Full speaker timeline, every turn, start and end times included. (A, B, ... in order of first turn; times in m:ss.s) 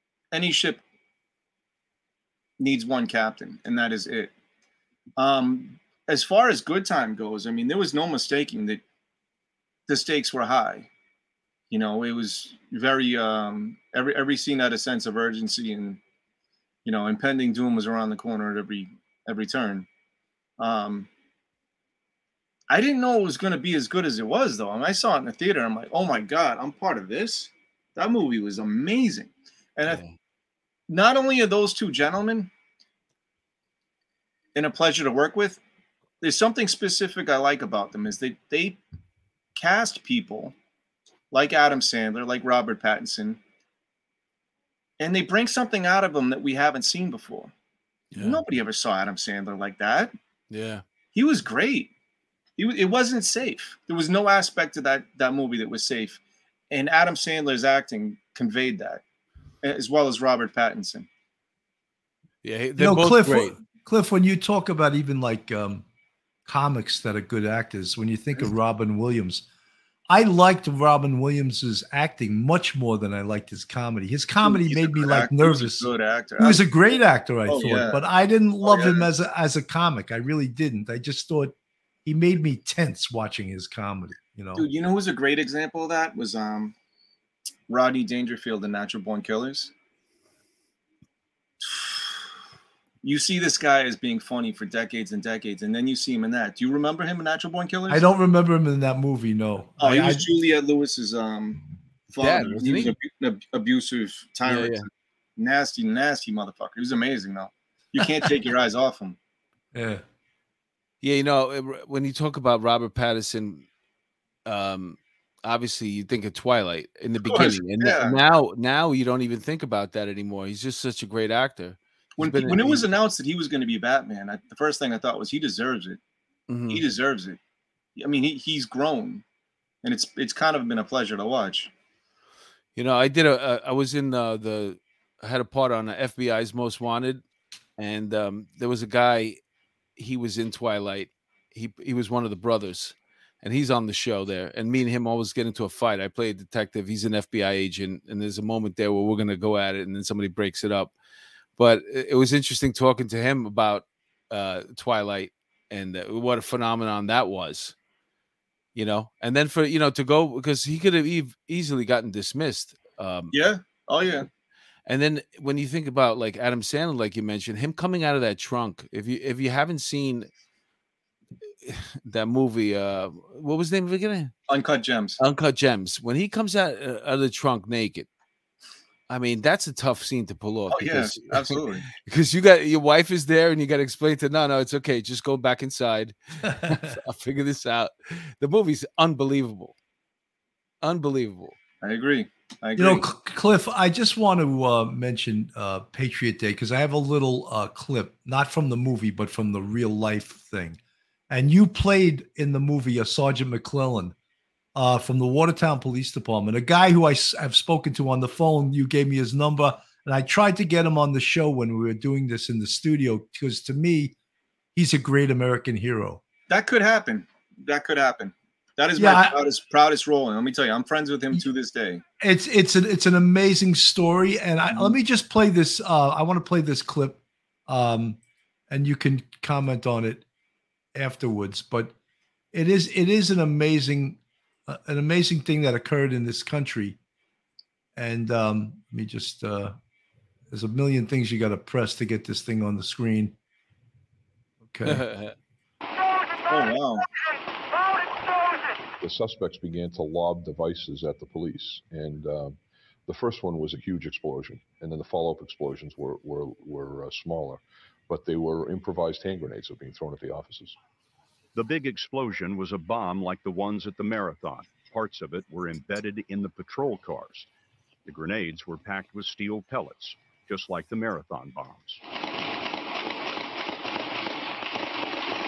0:00.3-0:00.8 A
0:02.6-0:04.3 A
0:05.2-0:08.8 A
0:09.9-0:10.9 A
0:11.7-0:16.0 A
0:16.8-0:19.9 A
0:20.6-0:21.1 A
0:22.7-0:30.0 A
0:29.9-0:30.2 B
0:30.9-0:32.5 A
0:34.5-0:35.6 A
0:36.2-0:38.8 A
0:39.6-0:40.5 A
0:41.3-0:43.4 A
0:45.0-0:47.5 A
0:48.1-0:48.4 B
0:48.2-0:50.1 A
0:50.5-0:50.8 B
0:51.1-0:51.9 A
0:52.6-0:59.0 A
0:59.6-1:01.1 A
1:02.4-1:03.6 B
1:02.8-1:05.8 C
1:06.4-1:09.4 C
1:10.1-1:21.5 C
1:14.4-1:16.6 A
1:17.5-1:18.0 A
1:18.6-1:19.1 A
1:22.0-1:24.7 C
1:24.6-1:26.7 A
1:27.7-1:29.7 A
1:31.6-1:32.2 A
1:33.0-1:38.0 A
1:37.9-1:40.2 C
1:39.8-1:49.2 A
1:42.2-1:42.9 B
1:44.4-1:44.9 B
1:49.7-1:50.0 C
1:51.0-1:53.7 B
1:54.4-2:02.9 B
1:57.3-1:58.2 A
2:02.2-2:06.0 A
2:06.5-2:06.8 B
2:06.7-2:07.4 A
2:08.0-2:09.2 A
2:09.8-2:11.7 A
2:12.8-2:17.2 B
2:17.8-2:19.4 B
2:20.0-2:30.9 B
2:31.6-2:37.7 B
2:38.7-2:43.3 B
2:43.3-2:44.3 A
2:44.9-2:50.3 B
2:51.6-2:54.3 B
2:54.5-2:55.2 A
2:55.2-2:58.1 B
2:59.1-3:09.7 B
3:00.7-3:01.9 A
3:10.8-3:11.6 B
3:11.8-3:13.1 A
3:12.8-3:20.8 C
3:21.3-3:24.1 C
3:24.7-3:34.2 C
3:34.7-3:36.2 C
3:36.5-3:42.0 A
3:39.0-3:39.4 C
3:42.2-3:48.2 C
3:48.7-3:50.2 C
3:50.9-3:51.9 C
3:52.5-3:57.0 C
3:58.0-3:59.8 C
4:00.5-4:03.4 C
4:04.6-4:05.0 C
4:04.8-4:05.3 B
4:06.5-4:07.0 A
4:09.0-4:20.8 D
4:21.5-4:27.5 E
4:28.0-4:32.0 E